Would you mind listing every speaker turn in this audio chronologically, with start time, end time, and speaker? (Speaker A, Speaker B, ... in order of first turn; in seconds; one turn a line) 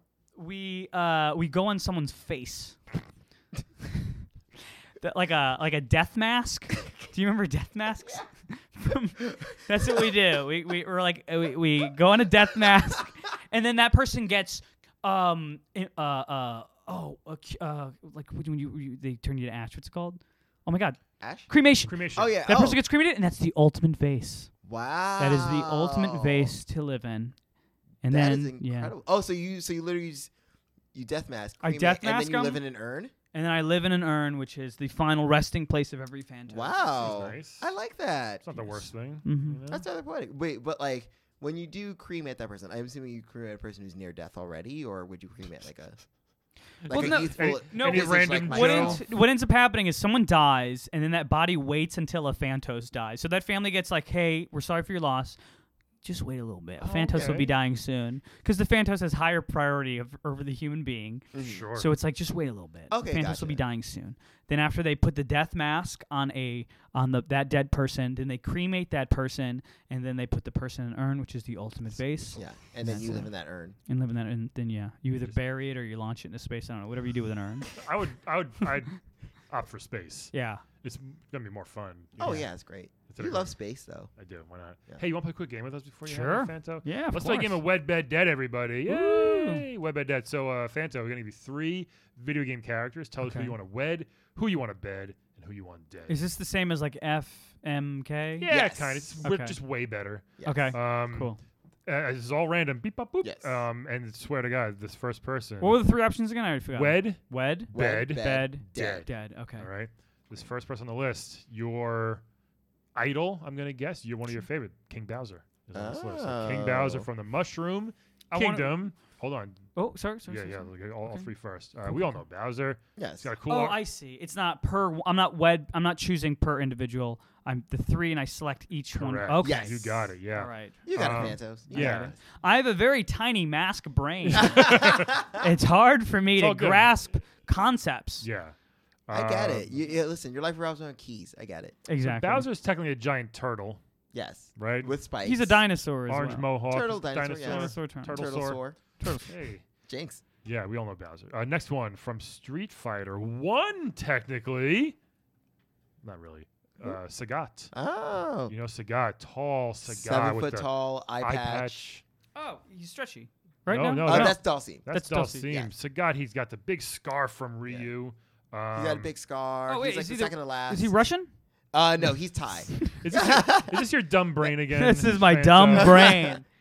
Speaker A: 0.3-2.8
Speaker A: 5.0-24.5
Speaker B: 21.2-21.5
Speaker C: 21.9-22.4
Speaker B: 22.1-22.8
Speaker B: 24.6-26.5
Speaker A: 25.2-27.4
Speaker A: 28.0-28.9
Speaker B: 28.1-30.3
Speaker B: 30.9-33.1
Speaker A: 31.6-32.6
Speaker A: 33.3-36.9
Speaker B: 36.5-38.7
Speaker C: 37.0-37.7
Speaker C: 38.4-39.8
Speaker A: 39.2-39.6
Speaker B: 39.7-46.0
Speaker B: 46.8-49.0
Speaker C: 46.9-49.0
Speaker A: 46.9-55.4
Speaker A: 56.0-73.3
Speaker C: 56.8-57.5
Speaker B: 61.3-61.6
Speaker C: 61.4-61.9
Speaker B: 62.9-63.6
Speaker B: 72.3-73.8
Speaker A: 73.8-77.7
Speaker C: 77.7-82.4
Speaker A: 80.3-80.6
Speaker B: 82.2-84.1
Speaker C: 83.1-83.5
Speaker C: 84.2-96.2
Speaker A: 86.1-87.6
Speaker A: 88.9-89.6
Speaker A: 93.2-93.5
Speaker A: 96.1-98.6
Speaker C: 98.4-101.3
Speaker B: 98.5-99.0
Speaker A: 99.2-99.6
Speaker B: 100.4-100.8
Speaker A: 100.4-101.4
Speaker C: 101.8-105.8
Speaker B: 103.2-103.5
Speaker A: 105.6-109.7
Speaker C: 106.7-112.2
Speaker B: 107.7-109.1
Speaker C: 112.9-119.7
Speaker B: 115.7-117.1
Speaker A: 118.3-118.8
Speaker A: 119.8-121.3
Speaker C: 120.3-123.8
Speaker A: 121.8-122.2
Speaker B: 123.0-123.3
Speaker A: 123.5-129.6
Speaker C: 128.9-132.1
Speaker B: 129.4-130.1
Speaker A: 130.3-130.8
Speaker B: 130.8-132.2
Speaker A: 131.7-138.3
Speaker C: 134.2-135.1
Speaker B: 134.4-135.4
Speaker C: 136.4-137.0
Speaker C: 138.2-138.5
Speaker C: 139.1-139.8
Speaker B: 139.1-141.8
Speaker A: 141.9-142.5
Speaker C: 142.0-143.8
Speaker B: 144.1-145.6
Speaker C: 144.6-144.9
Speaker A: 145.2-146.5
Speaker C: 146.1-149.6
Speaker B: 146.7-148.8
Speaker A: 147.4-148.3
Speaker A: 149.0-149.3
Speaker B: 149.9-150.2
Speaker C: 150.4-154.9
Speaker C: 156.0-157.7
Speaker B: 157.7-158.5
Speaker C: 158.5-162.0
Speaker B: 159.8-161.8
Speaker A: 162.3-165.4
Speaker C: 163.7-169.1
Speaker B: 164.0-164.8
Speaker B: 165.4-165.7
Speaker B: 168.7-170.9
Speaker A: 169.7-171.3
Speaker B: 171.7-173.9
Speaker C: 173.0-176.2
Speaker A: 174.7-176.4
Speaker B: 175.8-176.4